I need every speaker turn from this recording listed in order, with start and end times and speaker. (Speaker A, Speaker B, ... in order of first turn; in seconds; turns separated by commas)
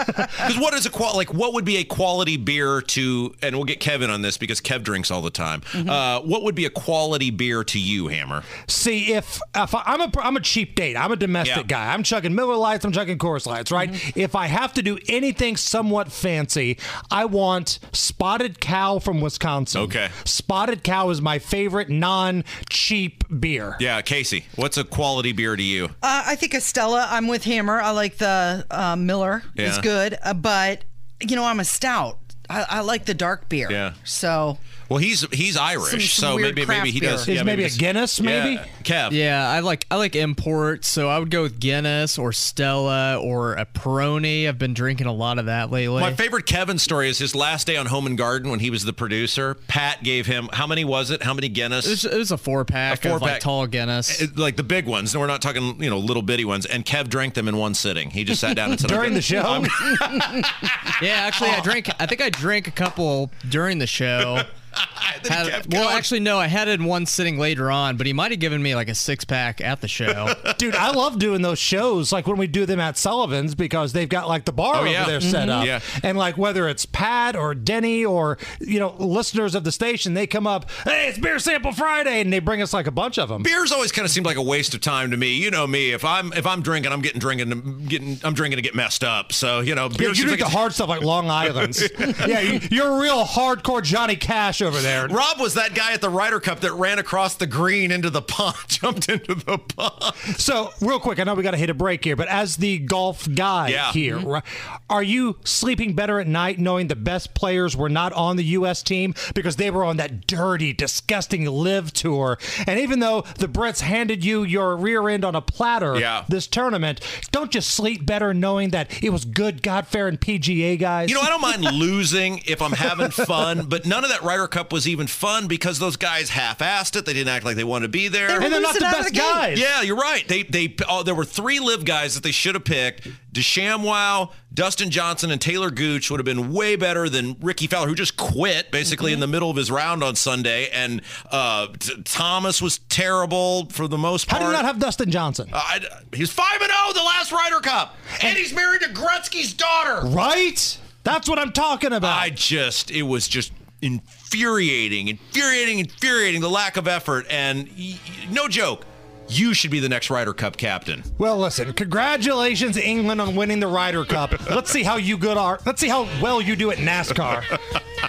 Speaker A: 0.4-8.5, Speaker B: 8.6-23.8, Speaker A: 11.4-11.7, Speaker A: 19.7-20.1, Speaker A: 23.8-25.9, Speaker C: 26.0-34.6, Speaker A: 29.6-29.9, Speaker A: 33.7-34.0, Speaker A: 34.9-39.2, Speaker C: 35.8-37.3, Speaker B: 37.3-38.7, Speaker D: 39.1-46.2, Speaker A: 46.0-52.0, Speaker D: 51.8-54.3, Speaker A: 52.9-53.5, Speaker A: 54.1-61.7, Speaker B: 58.8-59.9, Speaker D: 61.0-64.5, Speaker A: 64.8-66.1, Speaker D: 65.3-70.4, Speaker A: 70.3-70.6, Speaker B: 70.6-83.5, Speaker A: 74.7-76.0, Speaker C: 75.2-75.7, Speaker A: 83.4-90.6, Speaker B: 90.0-95.1, Speaker A: 91.5-92.6, Speaker A: 95.0-100.3, Speaker B: 100.3-121.6, Speaker A: 103.7-104.2, Speaker A: 115.9-116.3, Speaker A: 121.1-128.5, Speaker C: 128.3-129.5, Speaker B: 128.4-129.6, Speaker A: 129.5-144.6, Speaker B: 144.3-145.5, Speaker A: 145.5-150.1, Speaker B: 150.0-152.3, Speaker A: 152.0-161.1, Speaker B: 161.2-167.5